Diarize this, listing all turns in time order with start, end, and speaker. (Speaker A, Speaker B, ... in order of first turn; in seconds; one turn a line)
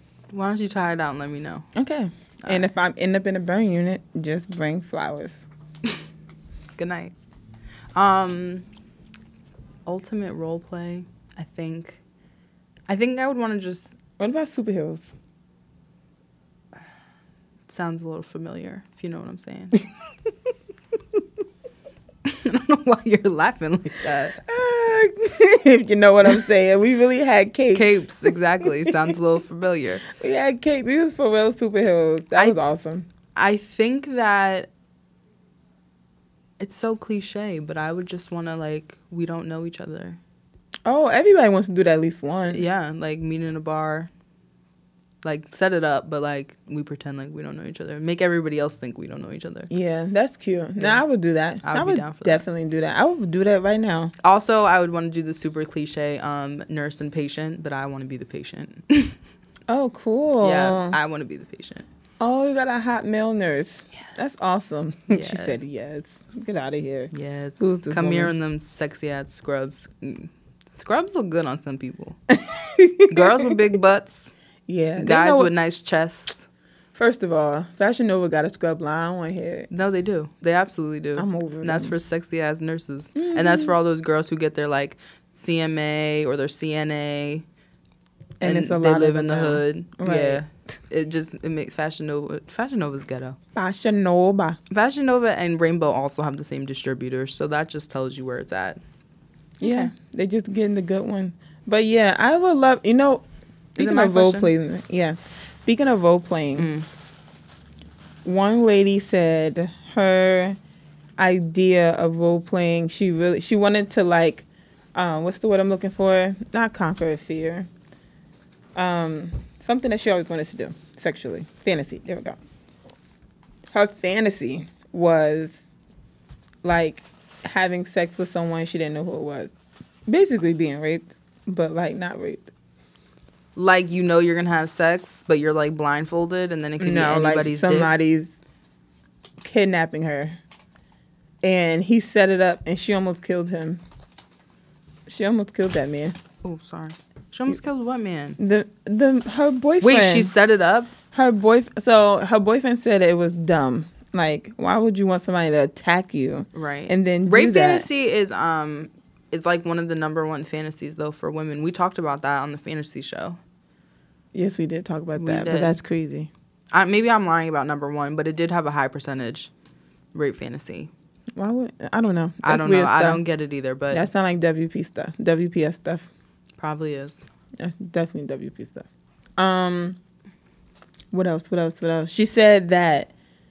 Speaker A: 0.3-1.7
Speaker B: 1.7-5.4
Speaker A: 6.8-7.1
Speaker A: 7.9-8.7
Speaker A: 9.8-12.0
Speaker A: 12.9-14.0
Speaker B: 14.2-15.1
Speaker A: 17.7-19.8
Speaker A: 22.2-24.4
Speaker B: 24.4-29.1
Speaker A: 27.7-30.1
Speaker B: 30.1-33.1
Speaker A: 33.3-34.7
Speaker A: 36.6-40.2
Speaker B: 40.9-42.6
Speaker A: 42.5-44.1
Speaker A: 45.2-49.7
Speaker B: 49.7-54.1
Speaker A: 51.6-52.4
Speaker A: 54.2-59.1
Speaker B: 59.7-61.0
Speaker A: 60.4-61.8
Speaker B: 62.2-68.3
Speaker A: 65.1-65.6
Speaker A: 67.1-72.2
Speaker B: 72.3-73.6
Speaker A: 73.1-74.3
Speaker B: 74.7-75.5
Speaker A: 75.0-76.5
Speaker B: 76.9-79.7
Speaker A: 79.7-87.4
Speaker B: 81.2-81.9
Speaker B: 83.2-83.7
Speaker B: 88.4-90.4
Speaker A: 88.4-93.4
Speaker B: 93.5-94.6
Speaker A: 94.7-98.8
Speaker A: 99.6-99.9
Speaker B: 99.6-106.7
Speaker A: 103.8-104.5
Speaker A: 106.6-106.9
Speaker B: 108.2-110.6
Speaker B: 111.2-117.7
Speaker B: 118.7-122.4
Speaker B: 123.7-125.6
Speaker B: 126.6-129.5
Speaker B: 130.1-132.5
Speaker A: 133.6-137.9
Speaker B: 136.8-138.3
Speaker B: 139.4-140.4
Speaker B: 141.4-143.8
Speaker B: 145.1-146.1
Speaker A: 146.4-148.4
Speaker B: 148.4-150.3
Speaker A: 149.8-150.9
Speaker B: 151.1-157.9
Speaker A: 156.5-163.4
Speaker B: 164.3-166.3
Speaker A: 165.1-165.7
Speaker A: 166.7-169.5
Speaker A: 170.1-170.9
Speaker B: 171.3-173.2
Speaker A: 172.4-174.0
Speaker B: 173.9-176.1
Speaker A: 176.6-177.2
Speaker B: 177.6-180.0
Speaker B: 181.1-183.1